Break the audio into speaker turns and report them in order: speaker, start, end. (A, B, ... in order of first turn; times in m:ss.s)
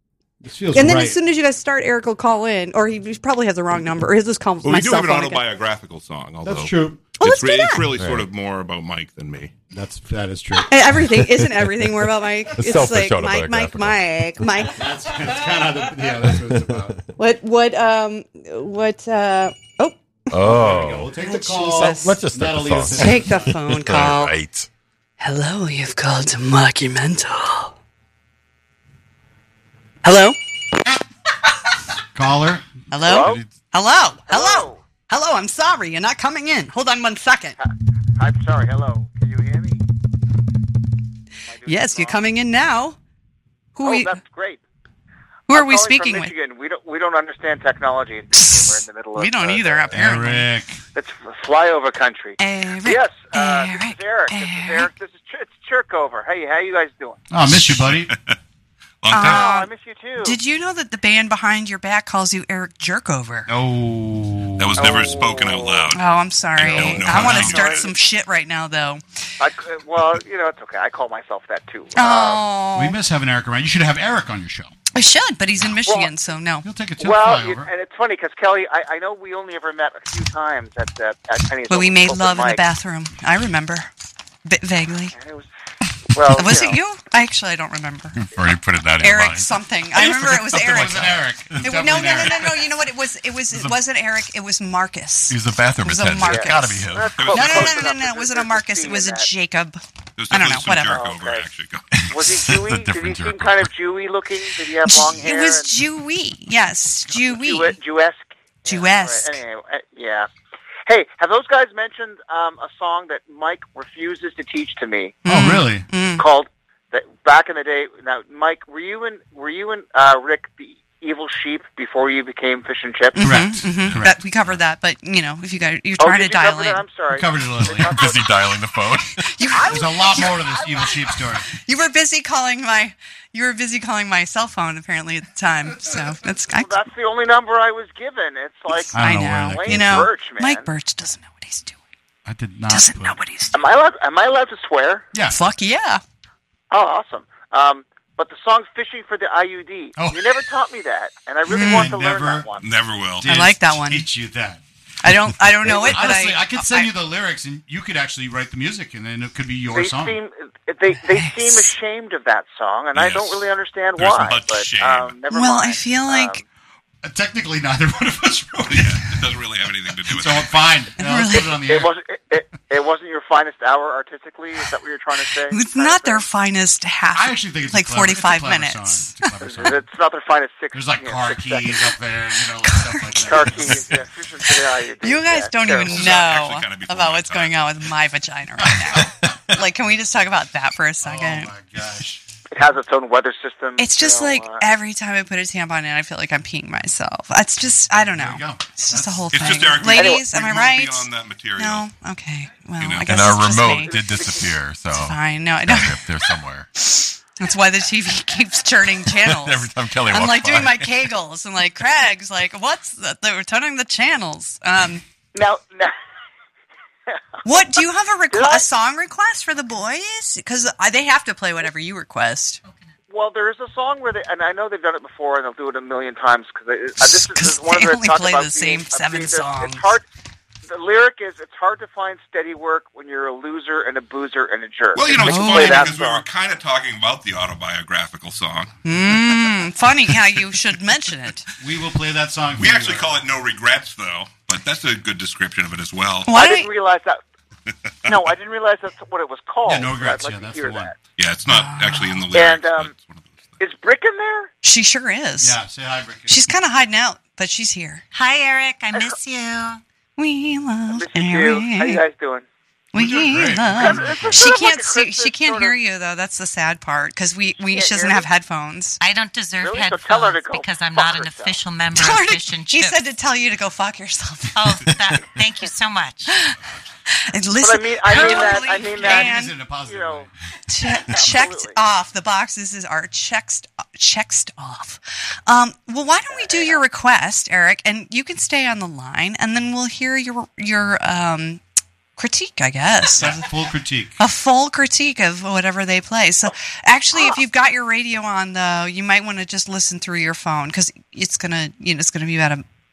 0:00.4-0:01.2 A
0:00.7-0:05.4 B
0:04.6-0:09.5 C
0:06.4-0:07.0 A
0:07.2-0:07.9 B
0:08.0-0:08.3 D
0:09.7-0:10.7 A
0:10.7-0:14.8 B
0:11.0-0:14.7 D
0:14.7-0:17.0 A
0:16.2-0:16.8 D
0:17.2-0:22.2 B
0:20.3-0:21.1 D
0:20.4-0:23.5 A
0:21.7-0:24.7 D
0:22.9-0:24.4 B
0:25.2-0:27.7 B
0:30.0-0:30.4 B
0:32.2-0:33.4 A
0:32.9-0:37.6 B
0:33.0-0:33.4 E
0:34.3-0:34.8 E
0:37.6-0:39.8 E
0:41.5-0:42.2 E
0:41.7-0:43.0 B
0:43.8-0:44.2 B
0:43.8-0:44.6 E
0:45.5-0:46.3 B
0:45.5-0:50.2 E
0:48.3-0:50.5 B
0:49.9-0:50.8 A
0:50.9-0:57.2 E
0:52.4-0:54.9 B
0:57.3-0:58.1 A
0:57.5-0:58.3 C
0:59.0-0:59.6 C
0:59.1-1:03.5 B
0:59.1-1:00.4 E
1:03.5-1:05.2 A
1:04.6-1:06.0 C
1:04.8-1:05.9 E
1:05.9-1:09.0 B
1:06.6-1:07.9 C
1:07.0-1:07.6 A
1:07.6-1:07.9 E
1:09.4-1:12.5 E
1:12.0-1:13.0 B
1:12.8-1:14.7 A
1:14.9-1:16.7 B
1:15.9-1:16.1 E
1:16.6-1:17.7 A
1:17.0-1:22.6 E
1:21.7-1:23.9 B
1:24.4-1:25.2 B
1:25.1-1:25.5 E
1:26.1-1:26.8 E
1:26.3-1:28.2 B
1:28.2-1:31.2 D
1:29.0-1:41.0 B
1:30.5-1:32.5 A
1:35.3-1:37.2 D
1:36.2-1:39.3 E
1:37.1-1:37.8 C
1:40.2-1:41.9 C
1:40.9-1:41.5 E
1:42.0-1:43.7 D
1:42.1-1:45.8 E
1:44.8-1:47.8 B
1:47.2-1:50.3 E
1:48.7-1:49.4 B
1:50.9-1:55.2 E
1:55.2-1:55.9 A
1:55.2-1:56.2 B
1:56.2-2:03.4 E
2:03.2-2:06.8 B
2:03.2-2:04.2 A
2:06.0-2:08.4 E
2:07.1-2:08.0 A
2:07.7-2:09.4 D
2:09.2-2:10.9 B
2:09.6-2:11.5 A
2:09.8-2:10.2 E
2:11.5-2:16.8 B
2:16.5-2:20.7 E
2:18.7-2:21.8 B
2:18.9-2:20.0 A
2:22.2-2:23.2 A
2:22.7-2:23.6 B
2:23.5-2:25.1 E
2:25.3-2:26.0 B
2:26.7-2:32.7 E
2:30.0-2:30.4 A
2:31.5-2:32.0 B
2:31.5-2:32.5 A
2:32.6-2:33.3 C
2:33.2-2:34.6 A
2:33.2-2:34.1 B
2:35.0-2:36.9 B
2:35.6-2:40.2 A
2:39.7-2:46.4 E
2:40.9-2:41.7 B
2:42.9-2:45.2 C
2:45.3-2:46.4 B
2:47.0-2:49.1 A
2:48.7-2:50.6 C
2:50.1-2:51.9 A
2:51.0-2:51.6 B
2:51.6-2:56.2 E
2:55.5-2:59.3 B
2:57.1-2:59.8 A
2:59.4-3:01.9 E
3:00.7-3:04.0 A
3:02.6-3:03.8 B
3:03.2-3:06.0 E
3:05.0-3:11.5 B
3:05.8-3:07.6 C
3:11.0-3:12.2 A
3:12.5-3:14.6 E
3:13.8-3:24.1 B
3:18.1-3:19.8 A
3:19.3-3:21.9 C
3:19.9-3:20.2 E
3:22.8-3:23.2 C
3:23.0-3:26.7 D
3:24.9-3:26.1 B
3:26.8-3:35.0 B
3:29.1-3:31.1 D
3:35.4-3:35.9 E
3:37.4-3:42.6 B
3:38.3-3:38.7 E
3:43.1-3:50.1 E
3:47.3-3:49.9 B
3:50.7-3:56.2 E
3:55.0-3:58.7 C
3:55.2-3:55.9 B
3:58.8-4:01.5 B
4:01.6-4:03.2 A
4:02.6-4:06.4 C
4:06.3-4:06.7 B
4:06.3-4:07.2 E
4:08.1-4:11.0 E
4:09.6-4:10.9 A
4:11.2-4:13.6 C
4:11.5-4:12.3 B
4:12.3-4:12.9 E
4:13.6-4:14.5 E
4:14.6-4:15.6 B
4:15.4-4:16.5 A
4:16.3-4:18.0 B
4:18.1-4:19.8 F
4:20.2-4:22.0 B
4:20.9-4:22.5 E
4:22.9-4:29.0 B
4:23.3-4:24.5 A
4:23.3-4:23.6 C
4:23.7-4:25.8 E
4:27.7-4:28.3 E
4:29.0-4:33.0 F
4:29.6-4:31.6 E
4:32.0-4:34.8 B
4:34.5-4:36.4 F
4:37.2-4:39.6 B
4:37.6-4:40.3 E
4:38.5-4:40.3 A
4:40.7-4:51.6 B
4:41.0-4:41.8 E
4:46.3-4:46.8 E
4:52.2-4:53.5 B
4:53.1-4:54.2 A
4:54.2-5:02.6 B